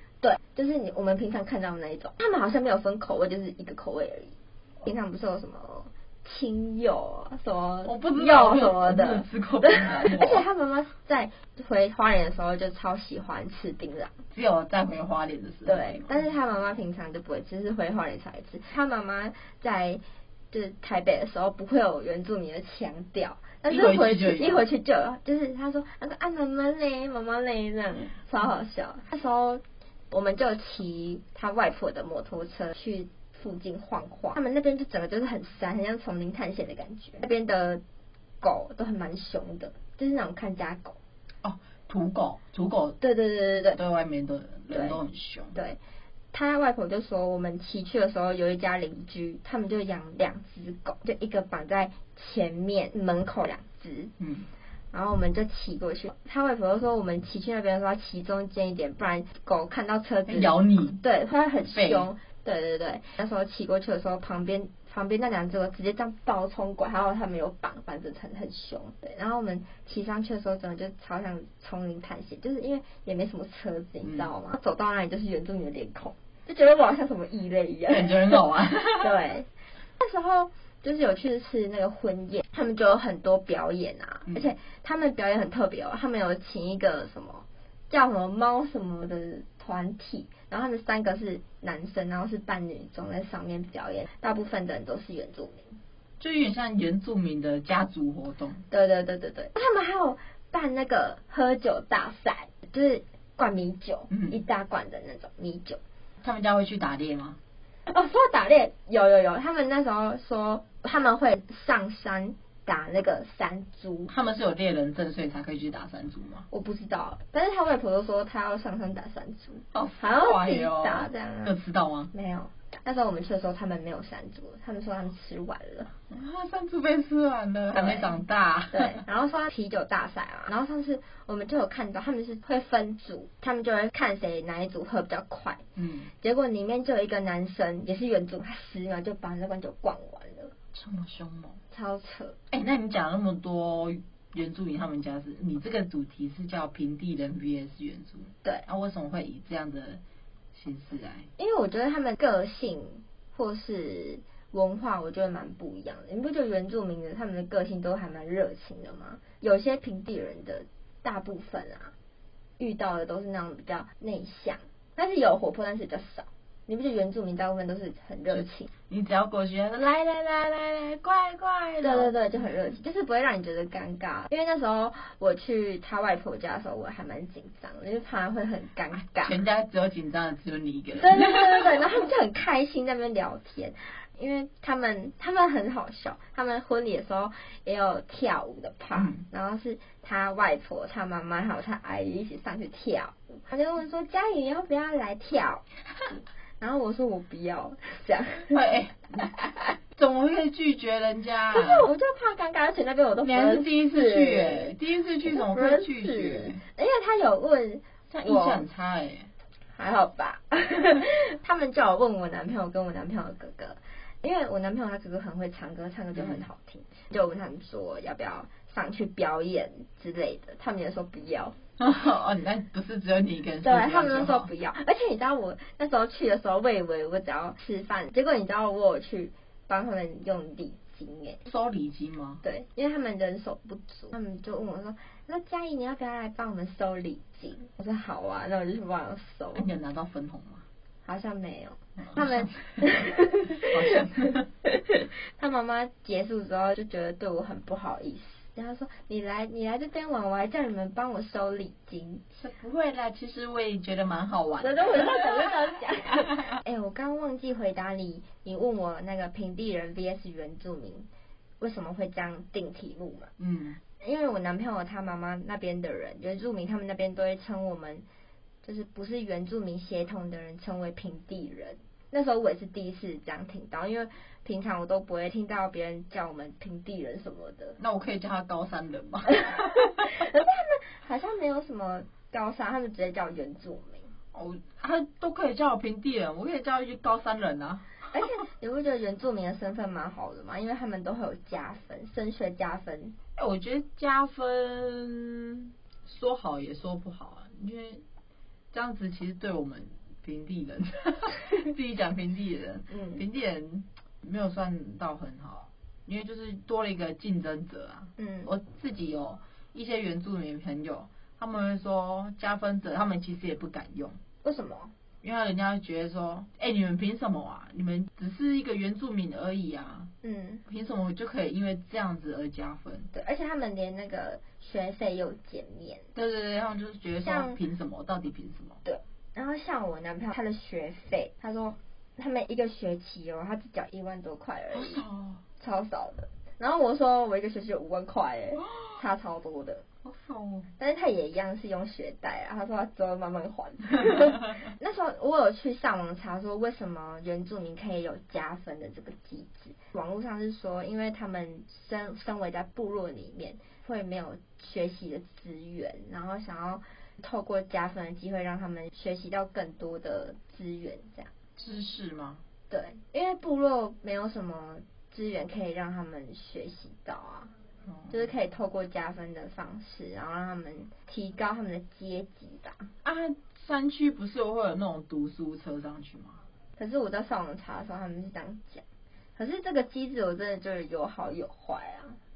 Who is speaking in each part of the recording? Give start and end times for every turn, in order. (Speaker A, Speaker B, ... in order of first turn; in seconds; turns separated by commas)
Speaker A: 0.2-14.1, Speaker B: 7.8-10.4, Speaker B: 14.3-16.2, Speaker A: 15.7-37.8, Speaker B: 23.7-24.6, Speaker A: 38.4-41.0, Speaker B: 41.4-43.0, Speaker A: 43.0-43.8, Speaker B: 43.7-45.5, Speaker A: 44.7-45.0, Speaker A: 46.3-54.1, Speaker B: 54.2-54.5, Speaker A: 54.9-79.5, Speaker B: 60.3-61.0, Speaker B: 61.7-62.1, Speaker B: 74.0-74.3, Speaker B: 77.9-79.2, Speaker A: 80.0-95.8, Speaker B: 96.2-98.7, Speaker A: 98.7-105.8, Speaker B: 104.1-104.4, Speaker B: 106.2-107.4, Speaker A: 107.9-114.1, Speaker B: 114.1-116.5, Speaker A: 116.5-121.6, Speaker B: 119.7-122.1, Speaker A: 122.1-125.9, Speaker B: 126.1-129.0, Speaker A: 127.7-128.2, Speaker A: 128.7-135.6, Speaker B: 135.8-136.1, Speaker A: 136.2-140.5, Speaker B: 140.7-141.6, Speaker A: 141.7-142.4, Speaker B: 142.5-150.0, Speaker B: 150.5-151.3, Speaker A: 151.4-161.9, Speaker A: 162.6-168.7, Speaker B: 168.3-172.2, Speaker A: 171.8-179.4, Speaker B: 179.2-181.7, Speaker A: 181.0-195.6, Speaker B: 188.9-189.2, Speaker A: 196.6-198.5, Speaker B: 198.5-201.9, Speaker A: 201.5-204.8, Speaker B: 203.2-206.6, Speaker A: 205.3-208.6, Speaker B: 208.1-209.3, Speaker A: 209.8-221.6, Speaker B: 216.2-216.4, Speaker B: 221.8-224.5, Speaker A: 223.6-231.4, Speaker B: 231.5-232.4, Speaker A: 232.4-239.7, Speaker B: 239.6-240.6, Speaker A: 241.1-252.2, Speaker B: 242.0-244.4, Speaker B: 252.3-255.5, Speaker A: 254.6-261.1, Speaker A: 261.6-263.3, Speaker B: 263.4-263.8, Speaker A: 264.0-268.0, Speaker A: 268.6-277.8, Speaker B: 277.8-280.1, Speaker A: 279.4-284.1, Speaker B: 284.3-287.9, Speaker A: 288.1-293.2, Speaker B: 293.4-298.0, Speaker B: 298.7-314.2, Speaker A: 302.9-303.2, Speaker A: 308.2-308.5, Speaker A: 314.4-314.9, Speaker B: 315.2-320.1, Speaker A: 320.2-320.6, Speaker B: 320.7-323.1, Speaker A: 323.1-326.1, Speaker B: 326.1-328.8, Speaker A: 327.2-327.6, Speaker A: 328.9-335.0, Speaker B: 334.7-335.4, Speaker A: 335.6-339.8, Speaker B: 338.6-339.0, Speaker B: 340.0-340.7, Speaker A: 340.8-361.3, Speaker B: 361.6-362.4, Speaker A: 362.7-367.5, Speaker B: 367.9-368.2, Speaker A: 368.1-372.9, Speaker B: 373.0-376.4, Speaker A: 376.8-378.8, Speaker A: 379.4-382.2